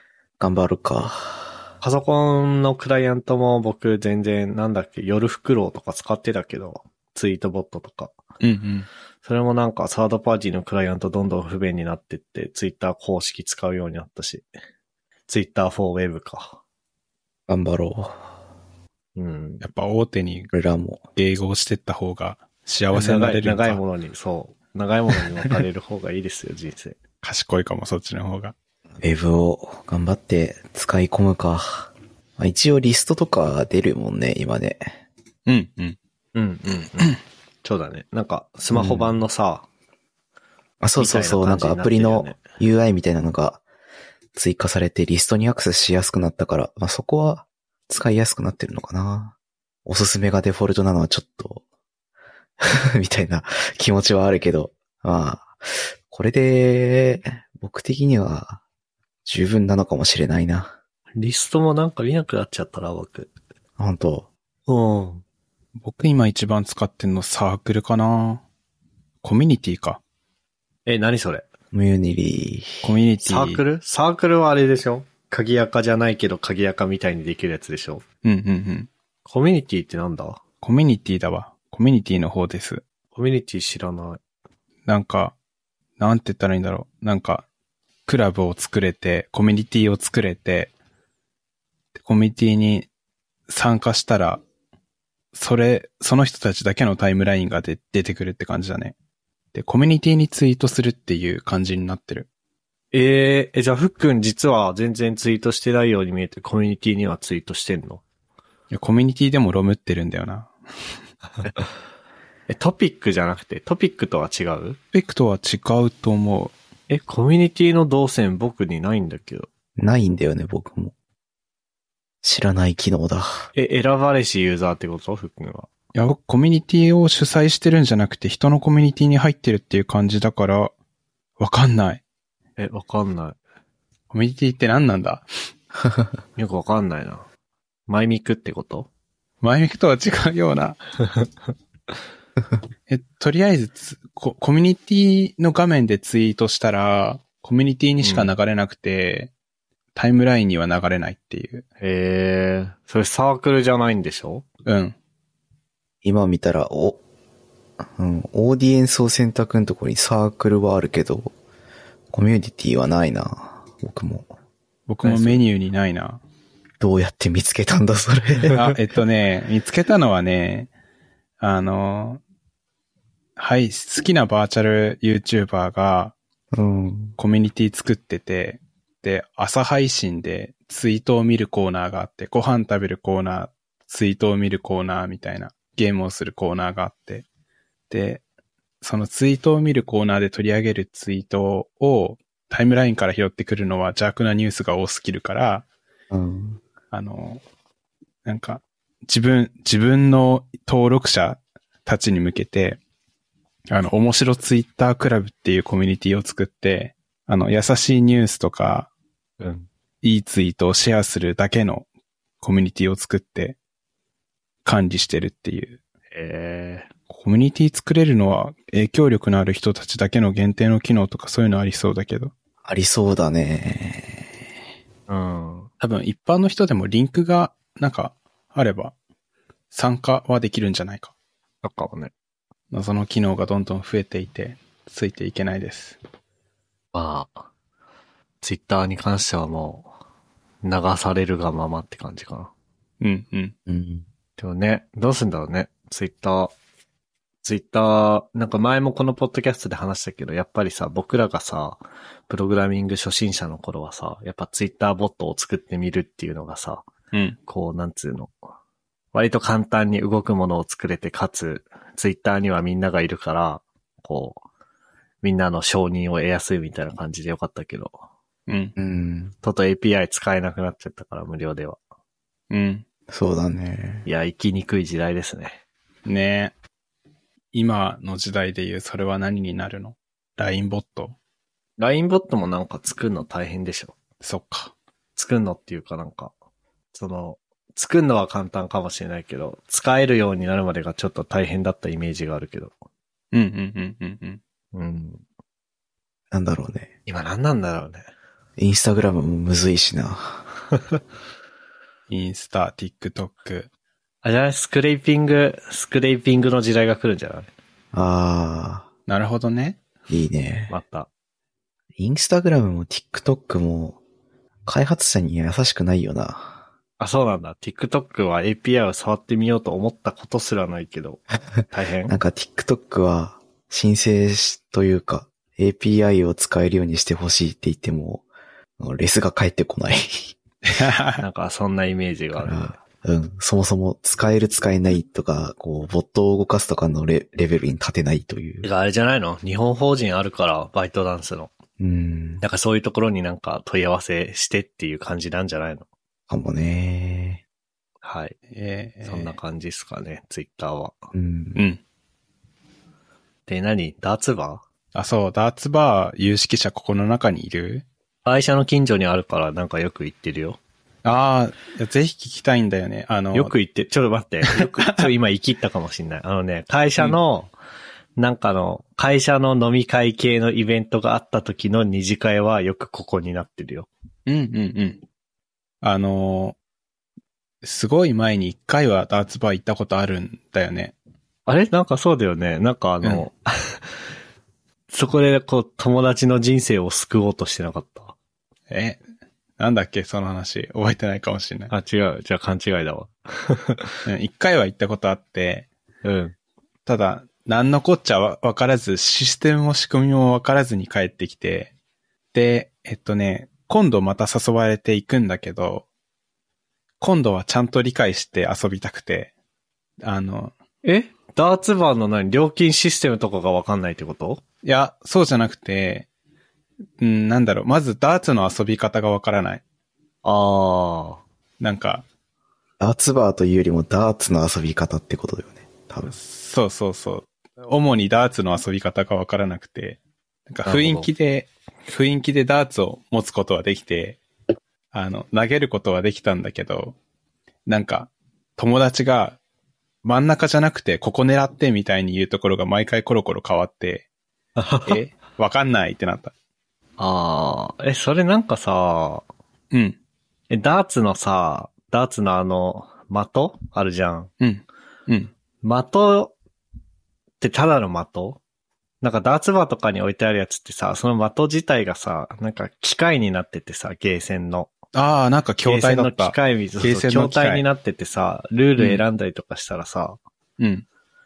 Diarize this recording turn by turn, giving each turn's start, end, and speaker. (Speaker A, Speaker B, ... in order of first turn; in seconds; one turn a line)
Speaker A: 0.4-1.7
Speaker B: 1.8-8.2
Speaker C: 8.4-8.9
Speaker B: 9.2-14.4
Speaker B: 15.3-16.6
Speaker A: 17.5-18.3
Speaker B: 19.2-19.6
Speaker C: 19.6-20.5
Speaker A: 20.5-21.0
Speaker C: 21.1-23.8
Speaker B: 22.9-27.0
Speaker C: 27.2-28.6
Speaker A: 29.0-35.0
Speaker C: 35.5-36.0
Speaker B: 36.4-39.7
Speaker A: 38.7-39.1
Speaker A: 40.8-43.6
Speaker B: 41.0-42.4
Speaker A: 44.4-51.6
Speaker A: 52.6-58.6
Speaker A: 59.3-60.8
Speaker B: 61.2-63.3
Speaker A: 63.8-64.3
Speaker B: 64.7-65.2
Speaker C: 65.8-68.4
Speaker C: 69.2-70.0
Speaker B: 70.9-71.5
Speaker A: 71.7-72.9
Speaker C: 72.8-73.6
Speaker B: 73.2-78.0
Speaker C: 78.2-78.9
Speaker B: 79.2-80.4
Speaker C: 80.6-82.8
Speaker B: 83.2-84.2
Speaker C: 84.9-85.3
Speaker C: 86.0-87.5
Speaker C: 88.1-90.7
Speaker C: 92.0-92.9
Speaker C: 93.5-94.4
Speaker C: 95.3-99.0
Speaker C: 99.5-102.3
Speaker B: 102.9-108.0
Speaker C: 108.7-110.5
Speaker B: 112.5-114.8
Speaker C: 114.9-116.5
Speaker B: 116.9-119.5
Speaker A: 119.8-120.9
Speaker A: 122.2-123.5
Speaker B: 123.5-125.7
Speaker C: 126.0-130.7
Speaker C: 131.4-132.0
Speaker B: 132.6-133.4
Speaker C: 134.1-135.3
Speaker B: 136.4-137.3
Speaker B: 137.9-138.9
Speaker C: 139.4-140.8
Speaker C: 142.9-149.3
Speaker B: 148.0-148.3
Speaker C: 149.9-151.6
Speaker B: 151.8-154.4
Speaker C: 154.7-154.9
Speaker A: 156.0-157.0
Speaker A: 157.8-161.3
Speaker A: 162.1-164.3
Speaker C: 164.9-166.2
Speaker B: 165.0-165.4
Speaker A: 166.8-168.7
Speaker C: 168.5-170.7
Speaker C: 171.4-172.2
Speaker C: 173.4-176.2
Speaker A: 176.5-177.2
Speaker C: 177.2-187.2
Speaker C: 187.9-188.2
Speaker C: 188.8-195.7
Speaker A: 196.1-196.6
Speaker C: 196.9-197.4
Speaker C: 198.2-202.8
Speaker C: 203.7-208.9
Speaker B: 209.4-209.7
Speaker C: 210.0-211.9
Speaker C: 212.4-213.6
Speaker C: 214.7-215.8
Speaker B: 216.1-216.9
Speaker C: 217.1-222.3
Speaker A: 222.6-224.4
Speaker B: 225.1-225.7
Speaker C: 225.8-228.9
Speaker C: 229.7-231.1
Speaker B: 231.6-232.1
Speaker C: 232.7-236.0
Speaker B: 236.9-237.5
Speaker B: 238.4-239.9
Speaker B: 240.6-242.5
Speaker C: 243.0-243.5
Speaker A: 243.7-244.1
Speaker B: 244.4-246.5
Speaker B: 247.4-256.9
Speaker C: 257.1-257.4
Speaker B: 257.5-258.3
Speaker B: 259.1-264.4
Speaker B: 265.2-268.0
Speaker C: 268.5-268.7
Speaker A: 268.8-269.3
Speaker B: 269.4-271.8
Speaker C: 272.5-272.8
Speaker A: 273.1-274.1
Speaker B: 274.1-275.6
Speaker C: 276.1-276.5
Speaker C: 277.5-281.2
Speaker B: 281.8-283.9
Speaker C: 284.2-284.7
Speaker B: 285.2-286.3
Speaker B: 286.9-292.7
Speaker C: 293.3-294.4
Speaker B: 294.7-295.2
Speaker A: 296.3-296.9
Speaker B: 297.1-298.1
Speaker A: 298.6-300.4
Speaker C: 302.1-303.7
Speaker B: 304.2-307.5
Speaker A: 307.9-308.9
Speaker C: 309.1-309.8
Speaker A: 310.1-310.7
Speaker B: 310.7-311.1
Speaker A: 312.0-314.0
Speaker A: 314.7-316.6
Speaker B: 317.0-322.2
Speaker A: 322.1-328.3
Speaker A: 328.8-330.4
Speaker C: 330.7-331.2
Speaker B: 331.2-332.7
Speaker A: 332.4-338.7
Speaker B: 338.6-341.5
Speaker A: 341.8-342.4
Speaker B: 342.4-345.9
Speaker A: 346.3-347.4
Speaker B: 348.0-348.4
Speaker C: 348.5-349.4
Speaker B: 349.0-351.0
Speaker A: 351.1-351.6
Speaker C: 351.6-351.8
Speaker B: 353.5-354.6
Speaker C: 354.9-357.9
Speaker B: 358.2-360.6
Speaker C: 361.0-363.5
Speaker B: 363.3-367.5
Speaker C: 364.6-365.1
Speaker B: 368.2-373.9
Speaker C: 374.3-375.0
Speaker C: 375.8-376.6
Speaker C: 377.6-380.9
Speaker B: 381.5-383.9
Speaker B: 384.9-388.1
Speaker C: 388.7-389.0
Speaker C: 389.6-391.7
Speaker B: 391.7-393.9
Speaker C: 394.1-395.7
Speaker B: 396.0-396.4
Speaker C: 396.9-401.7
Speaker C: 402.3-405.9
Speaker C: 407.0-409.3
Speaker C: 410.0-410.5
Speaker B: 410.8-414.4
Speaker C: 414.6-416.1
Speaker C: 417.0-419.6
Speaker B: 420.2-421.2
Speaker C: 421.6-422.1
Speaker A: 422.8-426.1
Speaker C: 426.1-434.2
Speaker B: 430.7-431.1
Speaker C: 434.9-437.0
Speaker C: 437.7-439.4
Speaker C: 440.0-444.1
Speaker B: 444.6-445.0
Speaker C: 444.9-446.3
Speaker B: 447.0-449.2
Speaker B: 450.5-454.3
Speaker C: 454.4-455.3
Speaker B: 455.6-456.3
Speaker B: 457.4-458.4
Speaker B: 459.0-464.7
Speaker C: 464.9-467.6
Speaker B: 465.6-470.2
Speaker C: 468.8-469.0
Speaker C: 470.6-470.9